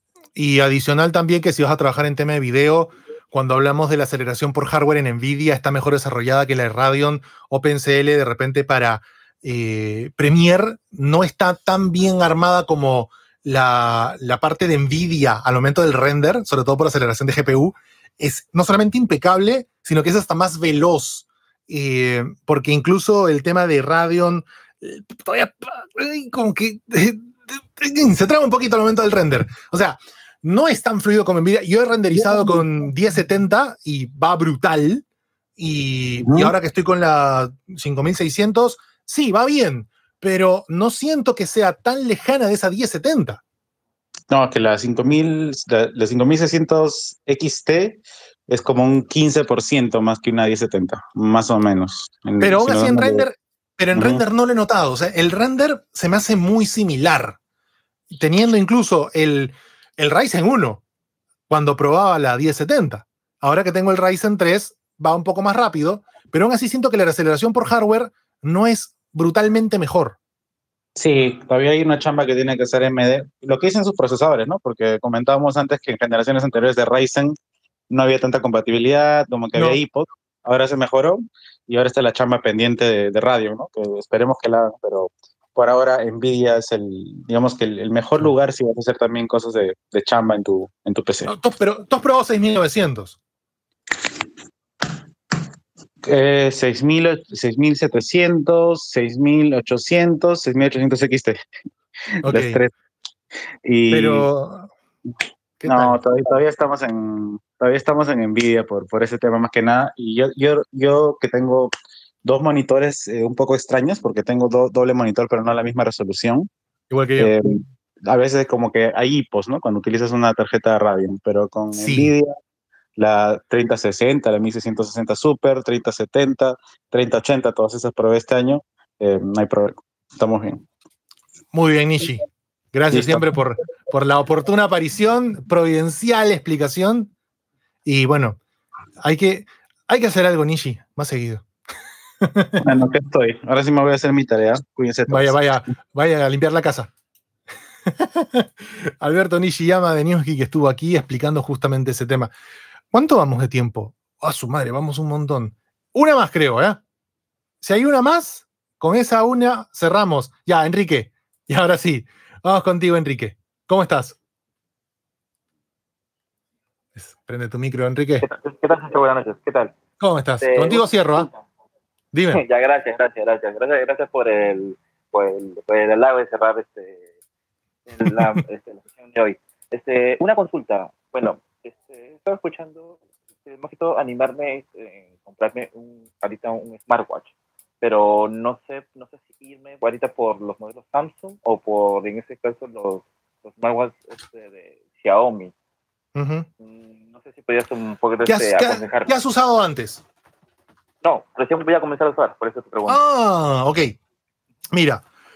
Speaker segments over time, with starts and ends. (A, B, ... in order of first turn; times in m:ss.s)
0:00.4-0:35.0 A
0:35.6-0:43.4 A
0:36.2-0:36.5 B
0:44.3-0:53.2 B
0:52.4-0:57.4 A
0:53.9-0:54.2 B
0:58.1-1:00.8 A
1:01.5-1:10.2 A
1:11.0-1:17.3 B
1:17.9-1:31.3 B
1:19.5-1:19.8 A
1:31.2-1:33.2 A
1:36.0-1:41.4 B
1:42.2-1:42.6 A
1:42.2-1:42.7 B
1:43.6-1:44.3 B
1:43.9-1:44.7 A
1:45.6-1:46.0 A
1:45.6-1:51.7 B
1:52.2-1:56.5 B
1:56.9-1:57.5 A
1:57.2-2:02.3 B
2:01.7-2:02.1 A
2:03.0-2:10.6 B
2:11.5-2:17.1 A
2:12.9-2:13.4 B
2:17.8-2:18.4 A
2:19.0-2:21.4 A
2:22.2-2:22.6 A
2:22.6-2:25.4 B
2:25.1-2:26.9 A
2:28.0-2:28.5 A
2:29.0-2:32.3 A
2:32.9-2:36.8 A
2:37.6-2:44.2 A
2:47.0-2:48.3 A
2:48.2-2:49.7 C
2:50.0-2:51.3 A
2:50.4-2:51.4 C
2:52.1-2:52.4 A
2:52.3-2:57.0 C
2:57.9-3:15.5 C
3:16.2-3:16.5 A
3:16.6-3:19.1 C
3:18.2-3:20.0 A
3:21.0-3:23.0 C
3:22.8-3:23.9 A
3:24.7-3:25.0 A